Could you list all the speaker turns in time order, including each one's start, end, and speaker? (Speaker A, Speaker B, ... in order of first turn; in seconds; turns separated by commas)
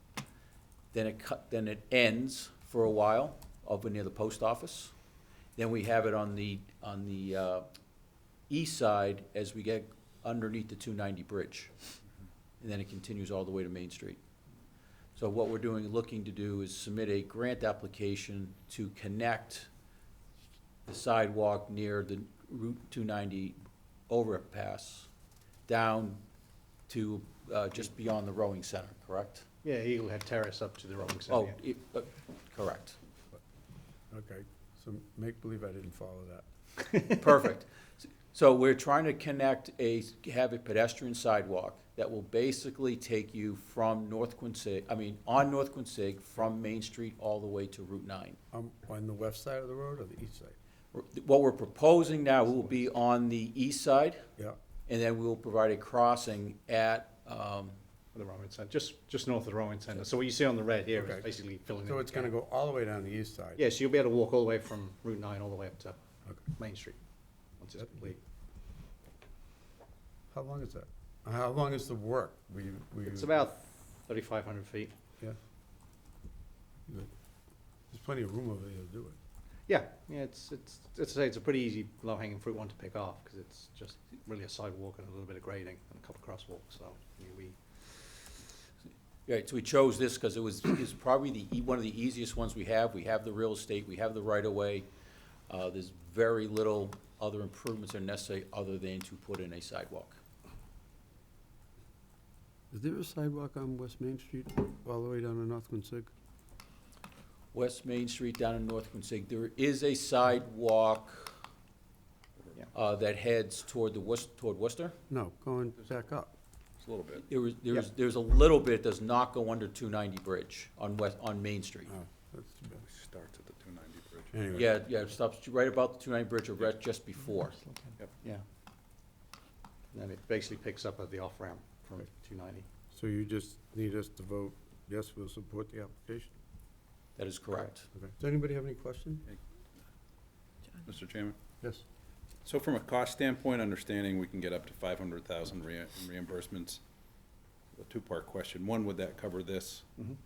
Speaker A: 0.9-4.9, Speaker A: 5.5-7.7, Speaker A: 8.5-11.7, Speaker A: 12.6-14.2, Speaker A: 15.2-19.7, Speaker A: 20.9-23.6, Speaker A: 24.1-25.1, Speaker A: 25.7-26.2, Speaker A: 26.9-29.5, Speaker B: 29.6-31.6, Speaker A: 31.3-33.0, Speaker C: 34.1-36.4, Speaker A: 37.2-48.4, Speaker C: 48.5-50.5, Speaker A: 50.9-54.2, Speaker A: 54.9-57.8, Speaker B: 58.1-62.3, Speaker C: 61.0-61.2, Speaker C: 61.9-63.6, Speaker B: 63.6-67.0, Speaker B: 67.6-68.2, Speaker C: 67.8-68.1, Speaker C: 70.3-73.5, Speaker B: 73.1-74.9, Speaker C: 77.9-79.2, Speaker B: 79.7-87.6, Speaker A: 89.3-94.9, Speaker A: 95.5-100.2, Speaker C: 102.7-106.1, Speaker A: 107.5-111.3, Speaker A: 112.7-115.0, Speaker C: 115.1-116.3, Speaker D: 116.8-117.2, Speaker A: 117.2-121.9, Speaker C: 121.9-122.8, Speaker D: 122.8-124.3, Speaker C: 124.3-124.7, Speaker A: 124.5-127.6, Speaker B: 127.6-128.4, Speaker B: 129.9-132.7, Speaker C: 132.9-136.3, Speaker A: 137.2-137.9, Speaker C: 137.9-139.3, Speaker D: 140.8-141.4, Speaker D: 142.4-146.8, Speaker D: 147.7-149.9